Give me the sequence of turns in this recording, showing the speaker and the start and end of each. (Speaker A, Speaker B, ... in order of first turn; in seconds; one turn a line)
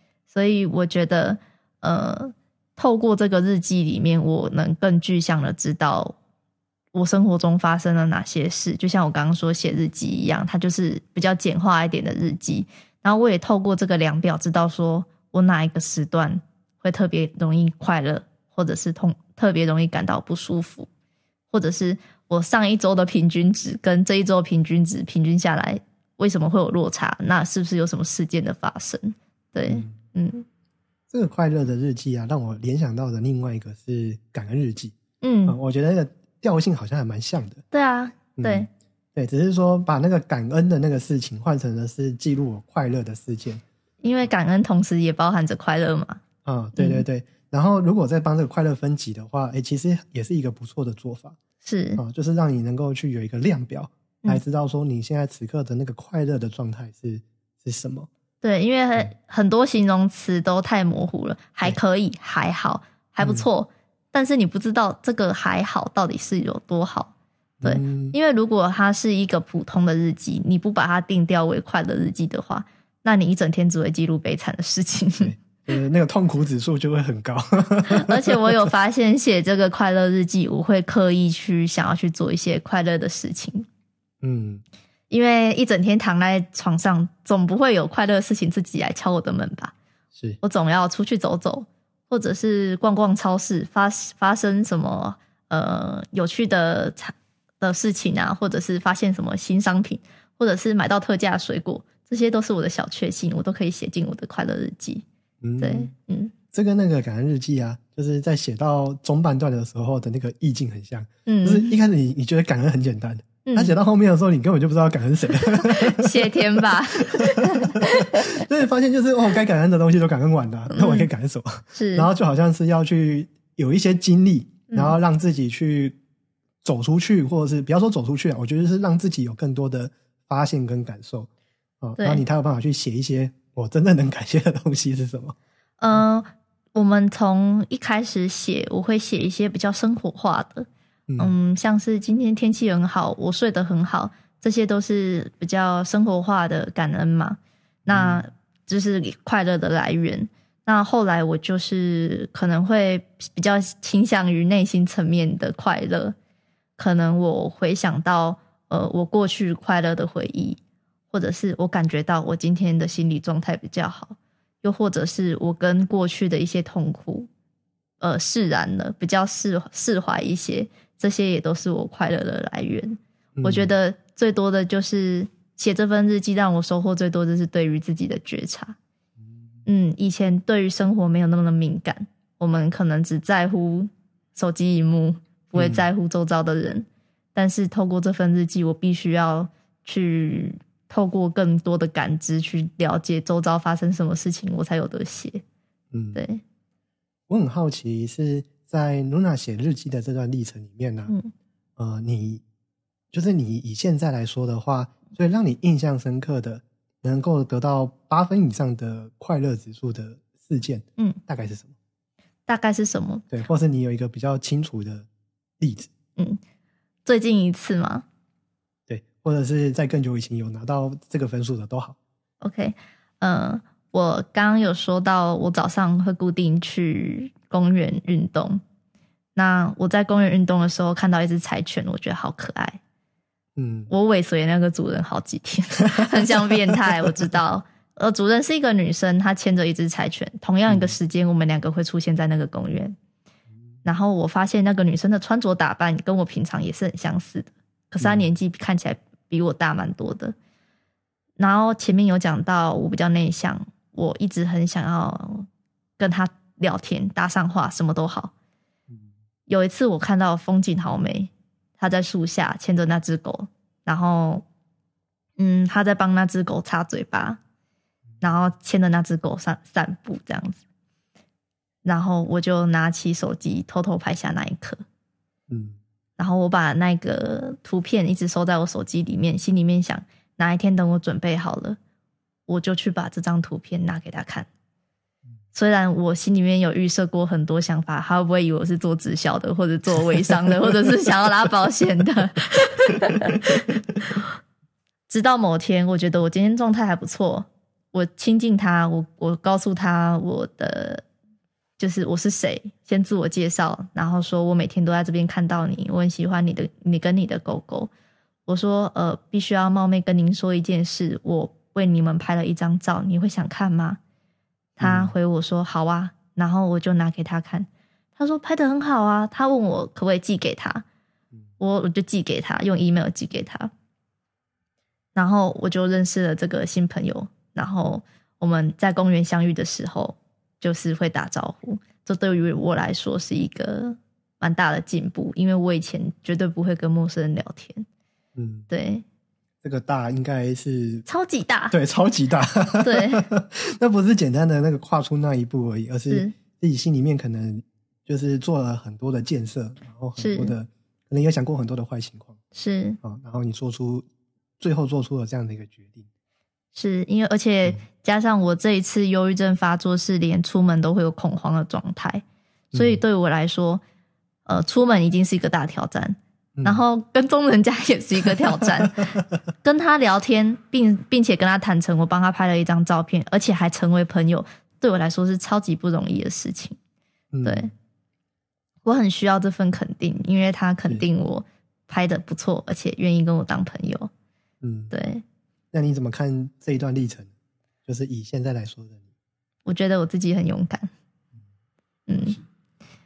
Speaker A: 0.3-6.2
Speaker A: 6.9-20.9
Speaker A: 21.5-30.4
Speaker B: 29.6-29.9
Speaker B: 31.1-34.9
Speaker A: 35.2-35.5
Speaker B: 35.5-37.6
Speaker A: 37.7-38.7
Speaker B: 38.4-43.6
Speaker A: 44.0-46.2
Speaker B: 46.4-51.4
Speaker A: 46.8-47.0
Speaker A: 51.6-52.0
Speaker B: 52.0-58.1
Speaker A: 58.4-67.1
Speaker B: 63.2-63.5
Speaker B: 67.6-68.2
Speaker A: 67.6-75.3
Speaker B: 75.2-78.7
Speaker A: 77.9-83.7
Speaker B: 84.2-84.6
Speaker A: 85.1-89.7
Speaker A: 90.4-105.0
Speaker B: 105.4-105.9
Speaker A: 105.6-106.3
Speaker B: 106.5-126.0
Speaker A: 111.2-111.8
Speaker A: 113.4-113.8
Speaker A: 115.4-118.4
Speaker A: 120.7-121.1
Speaker A: 121.7-122.1
Speaker A: 124.7-125.0
Speaker B: 126.6-131.3
Speaker B: 131.8-135.3
Speaker A: 132.0-132.2
Speaker A: 135.8-140.7
Speaker B: 141.1-141.3
Speaker A: 141.2-156.2
Speaker B: 147.9-148.3
Speaker A: 156.8-160.6
Speaker A: 161.1-167.3
Speaker A: 168.0-178.8
Speaker B: 173.4-173.7
Speaker A: 179.7-195.4
Speaker B: 185.5-185.8
Speaker B: 195.9-196.2
Speaker A: 196.1-196.4
Speaker B: 197.3-201.1
Speaker B: 201.8-202.4
Speaker B: 203.1-211.7
Speaker A: 212.5-213.3
Speaker B: 213.3-215.1
Speaker B: 215.6-215.9
Speaker A: 217.0-218.0
Speaker B: 218.9-222.0
Speaker A: 222.4-228.6
Speaker A: 229.3-232.8
Speaker B: 233.6-233.9
Speaker A: 233.9-242.9
Speaker B: 236.0-236.5
Speaker B: 240.7-240.9
Speaker A: 243.8-250.3
Speaker B: 248.0-248.3
Speaker A: 251.4-255.5
Speaker A: 256.0-258.3
Speaker A: 259.5-264.4
Speaker A: 265.4-267.4
Speaker A: 268.2-270.6
Speaker A: 271.8-274.8
Speaker B: 275.5-275.8
Speaker A: 276.2-281.8
Speaker A: 282.5-284.5
Speaker A: 285.5-294.3
Speaker A: 295.1-301.0
Speaker A: 301.8-307.9
Speaker A: 308.5-314.0
Speaker A: 314.8-320.8
Speaker B: 314.8-315.1
Speaker A: 321.6-323.7
Speaker A: 325.1-337.9
Speaker B: 338.4-338.6
Speaker A: 338.7-339.0
Speaker B: 339.6-341.0
Speaker A: 341.1-341.7
Speaker B: 341.7-352.4
Speaker A: 342.8-343.3
Speaker A: 346.1-346.3
Speaker A: 350.2-350.5
Speaker A: 352.5-353.0
Speaker B: 353.0-354.1
Speaker B: 354.6-356.1
Speaker A: 356.7-363.8
Speaker B: 362.7-363.0
Speaker A: 364.4-376.8
Speaker B: 366.6-366.8
Speaker B: 368.6-369.2
Speaker B: 377.3-377.7
Speaker A: 377.4-377.7
Speaker A: 378.8-384.1
Speaker B: 384.6-384.9
Speaker A: 384.9-385.2
Speaker B: 385.7-387.3
Speaker B: 387.9-389.1
Speaker A: 389.6-390.9
Speaker A: 392.1-392.4